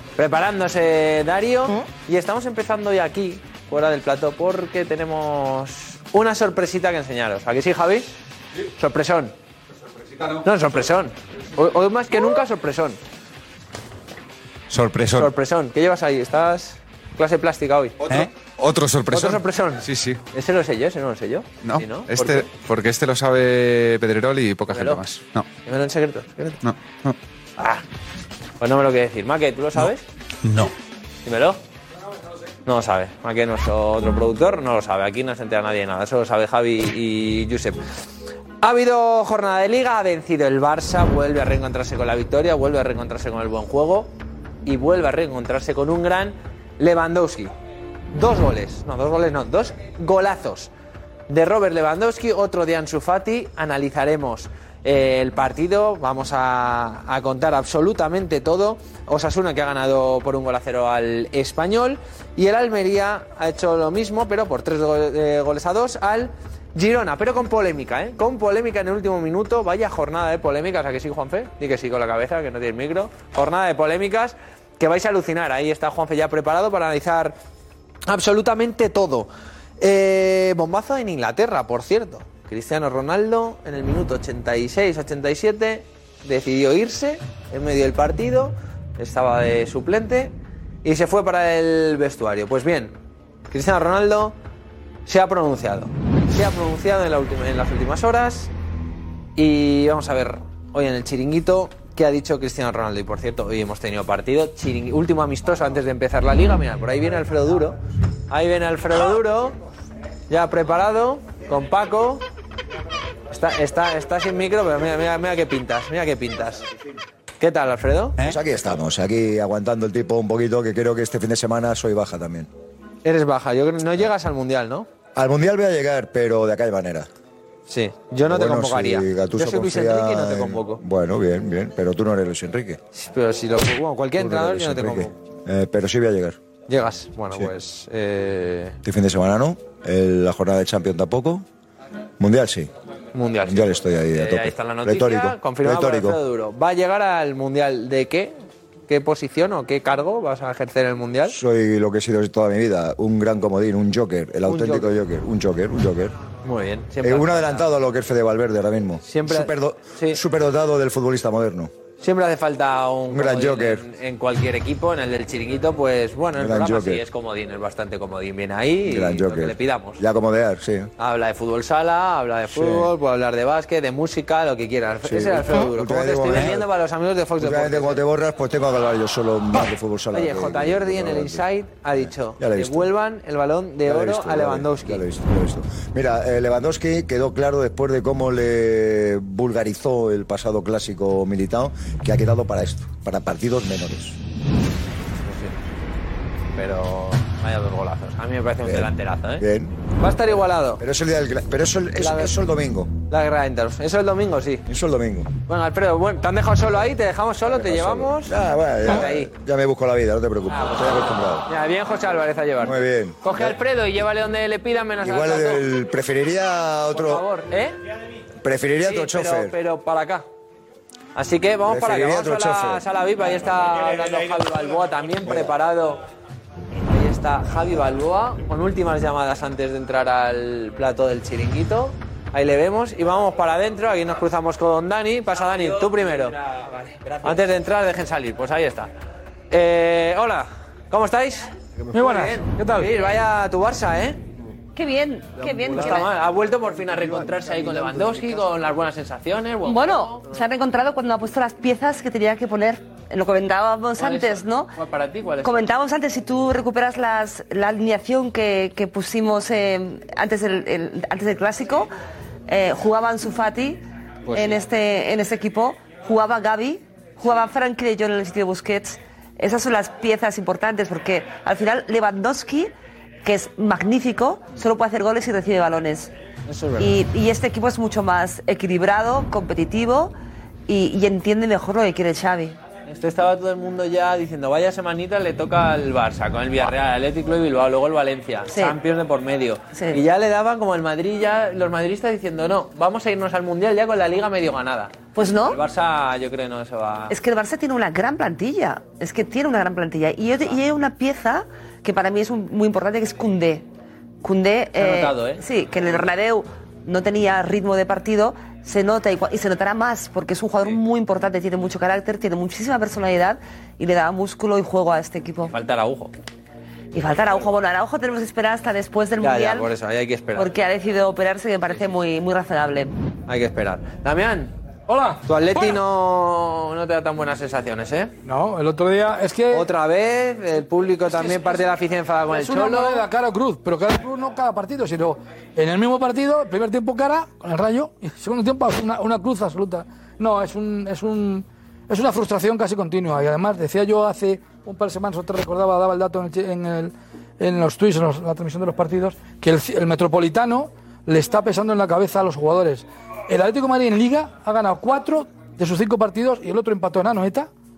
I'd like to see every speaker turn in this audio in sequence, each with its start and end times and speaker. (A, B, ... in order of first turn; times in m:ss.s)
0:00.2-0:08.1 A
0:08.8-0:09.3 A
0:10.4-0:13.0 A
0:14.7-0:15.3 B
0:15.1-0:18.2 A
0:18.0-0:20.2 B
0:19.1-0:22.5 A
0:21.6-0:25.5 B
0:24.7-0:25.0 A
0:25.6-0:26.6 A
0:26.6-0:27.2 B
0:27.6-0:27.8 A
0:28.6-0:30.0 A
0:31.3-0:31.6 A
0:32.7-0:37.8 A
0:38.6-0:44.1 A
0:44.7-0:47.5 A
0:48.1-0:50.7 A
0:51.3-1:17.4 A
1:18.1-1:19.3 A
1:19.8-1:33.0 A
1:33.5-1:34.4 A
1:35.1-1:38.5 A
1:39.4-1:47.8 A
1:48.3-1:49.6 A
1:50.3-1:52.2 A
1:53.3-1:56.7 A
1:57.4-1:58.2 A
1:58.2-2:02.5 C
2:03.0-2:04.9 A
2:05.2-2:07.1 C
2:07.7-2:10.8 A
2:08.3-2:12.8 C
2:12.9-2:15.1 A
2:14.2-2:16.4 C
2:16.7-2:18.8 A
2:18.8-2:21.4 C
2:22.2-2:22.7 C
2:23.1-2:28.4 A
2:23.5-2:26.2 C
2:28.9-2:31.4 A
2:31.3-2:36.2 C
2:34.5-2:34.9 A
2:36.4-2:37.7 A
2:37.0-2:41.7 C
2:39.0-2:40.2 A
2:42.0-2:50.0 A
2:43.1-2:43.8 C
2:46.4-2:47.0 C
2:48.9-2:50.9 C
2:51.0-2:58.0 A
2:52.5-2:52.9 C
2:55.0-2:56.7 C
2:57.4-3:01.5 C
3:00.1-3:05.0 A
3:02.0-3:02.9 C
3:03.9-3:14.2 C
3:15.2-3:15.6 A
3:16.6-3:19.4 A
3:18.6-3:19.8 C
3:20.0-3:20.8 A
3:20.8-3:22.9 C
3:22.0-3:22.4 A
3:23.1-3:24.6 A
3:24.7-3:25.3 C
3:25.5-3:29.3 A
3:27.4-3:31.4 C
3:30.5-3:35.6 A
3:32.6-3:33.6 C
3:35.0-3:37.2 C
3:36.9-3:37.8 A
3:38.4-3:39.6 C
3:38.8-3:40.3 A
3:41.2-3:46.0 A
3:41.7-3:42.8 C
3:46.9-3:56.4 A
3:57.1-3:58.9 A
3:59.5-4:04.2 A
4:01.9-4:02.9 D
4:04.8-4:06.1 E
4:05.5-4:10.3 A
4:09.6-4:14.8 E
4:14.0-4:15.7 A
4:15.4-4:21.9 E
4:22.5-4:32.7 E
4:24.3-4:24.6 A
4:33.2-4:36.1 E
4:36.5-4:37.0 A
4:36.8-4:40.2 E
4:40.7-4:42.6 E
4:42.9-4:57.2 A
4:48.5-4:48.8 E
4:49.7-4:50.0 E
4:55.2-4:55.6 E
4:57.1-5:03.7 E
5:04.2-5:15.6 E
5:04.8-5:05.4 A
5:15.5-5:16.1 A
5:16.9-5:19.7 E
5:19.2-5:20.5 A
5:20.4-5:22.9 E
5:23.3-5:24.5 A
5:24.9-5:25.8 D
5:25.2-5:28.1 A
5:28.2-5:29.7 D
5:29.5-5:33.1 A
5:31.1-5:31.7 D
5:32.3-5:57.5 D